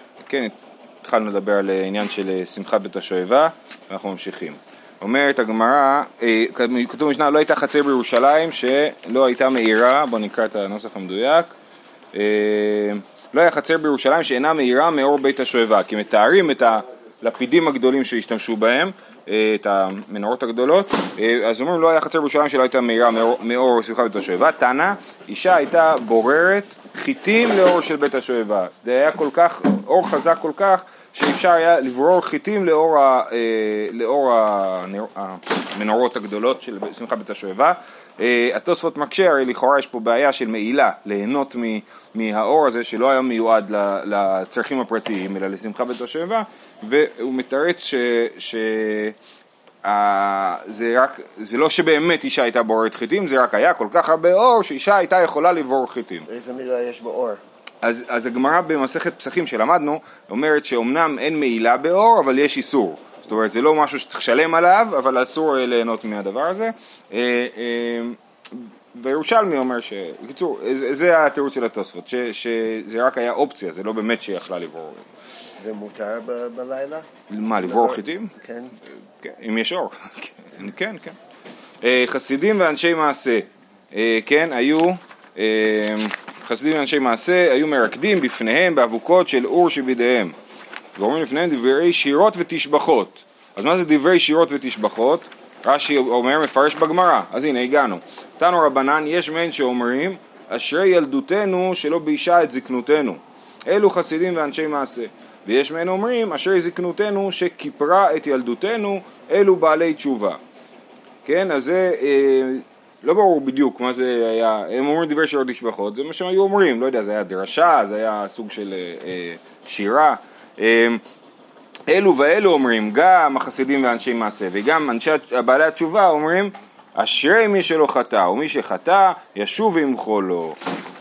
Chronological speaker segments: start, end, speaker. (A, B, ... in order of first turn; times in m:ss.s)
0:00.2-0:11.5 A
0:12.1-0:49.1 A
0:49.8-0:56.2 A
0:56.3-0:57.4 B
0:57.8-1:15.0 A
1:15.6-1:17.1 B
1:17.3-1:18.3 A
1:17.6-1:18.7 B
1:19.2-1:21.2 A
1:21.8-1:30.3 A
1:31.0-1:50.4 A
1:51.2-2:01.0 A
2:01.9-2:10.6 A